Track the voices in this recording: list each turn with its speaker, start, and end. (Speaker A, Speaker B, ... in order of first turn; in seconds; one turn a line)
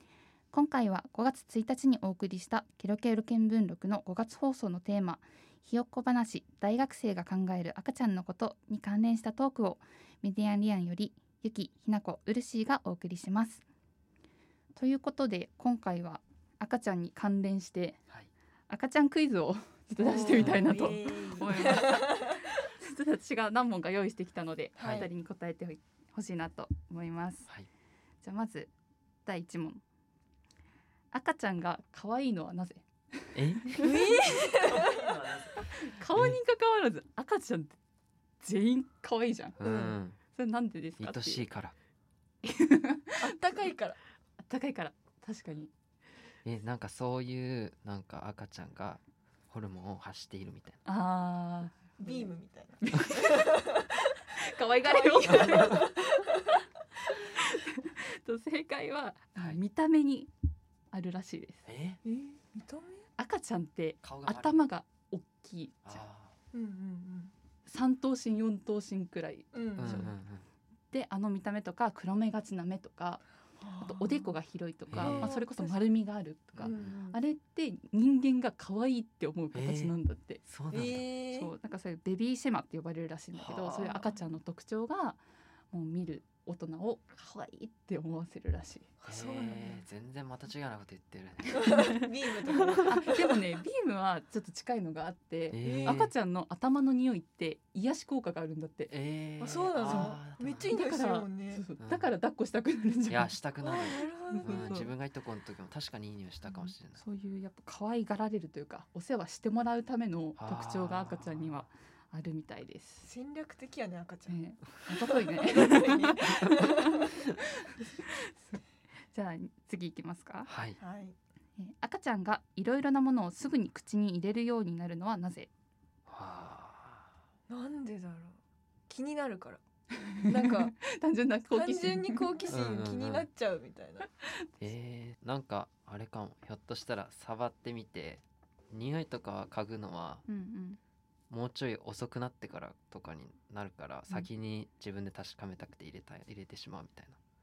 Speaker A: 0.5-13.6
Speaker A: 14.8-18.0
Speaker A: 18.7-27.5
Speaker B: 20.0-22.3
Speaker C: 20.4-20.7
Speaker B: 24.8-25.1
Speaker C: 24.8-25.1
Speaker A: 28.2-28.7
Speaker A: 29.2-29.8
Speaker A: 31.1-33.9
Speaker C: 33.4-33.7
Speaker B: 33.8-35.1
Speaker C: 34.4-36.4
Speaker A: 35.6-37.8
Speaker A: 38.4-39.6
Speaker C: 39.6-40.2
Speaker B: 39.6-40.0
Speaker A: 40.3-41.5
Speaker C: 41.0-41.8
Speaker A: 42.4-43.2
Speaker B: 43.2-44.0
Speaker A: 44.4-45.7
Speaker C: 46.5-50.8
Speaker A: 50.9-52.3
Speaker B: 52.0-53.9
Speaker A: 52.8-53.7
Speaker A: 54.3-56.6
Speaker B: 54.8-56.0
Speaker C: 55.3-55.8
Speaker A: 57.1-60.3
Speaker A: 60.9-61.7
Speaker C: 61.7-62.0
Speaker B: 62.0-63.0
Speaker A: 63.2-66.0
Speaker C: 64.0-64.6
Speaker C: 65.8-66.3
Speaker B: 66.5-67.3
Speaker A: 67.7-70.2
Speaker B: 69.5-70.1
Speaker C: 69.8-70.5
Speaker A: 70.9-73.2
Speaker B: 73.6-74.4
Speaker A: 73.8-80.4
Speaker C: 74.9-75.3
Speaker B: 75.0-75.9
Speaker C: 76.5-76.9
Speaker B: 76.6-77.2
Speaker C: 79.5-79.9
Speaker C: 80.5-81.0
Speaker B: 80.7-81.5
Speaker A: 81.3-88.9
Speaker C: 83.3-84.0
Speaker B: 83.8-84.2
Speaker B: 89.0-89.8
Speaker C: 89.1-91.8
Speaker B: 91.5-93.3
Speaker A: 92.9-98.9
Speaker C: 95.5-96.1
Speaker B: 95.6-96.0
Speaker C: 98.9-100.8
Speaker B: 99.4-101.6
Speaker A: 99.8-103.3
Speaker C: 101.8-102.1
Speaker C: 103.1-107.0
Speaker B: 103.6-104.7
Speaker A: 104.3-104.9
Speaker A: 106.9-113.1
Speaker C: 110.4-111.7
Speaker B: 113.0-114.4
Speaker A: 114.3-118.6
Speaker B: 114.9-116.9
Speaker A: 119.1-120.5
Speaker C: 120.5-120.8
Speaker B: 120.8-121.2
Speaker A: 121.6-125.5
Speaker C: 126.1-127.1
Speaker B: 127.5-128.4
Speaker B: 128.9-129.6
Speaker A: 130.0-132.3
Speaker B: 130.3-130.8
Speaker B: 131.5-134.1
Speaker C: 132.5-133.3
Speaker C: 134.6-140.2
Speaker A: 140.3-140.8
Speaker C: 141.3-147.2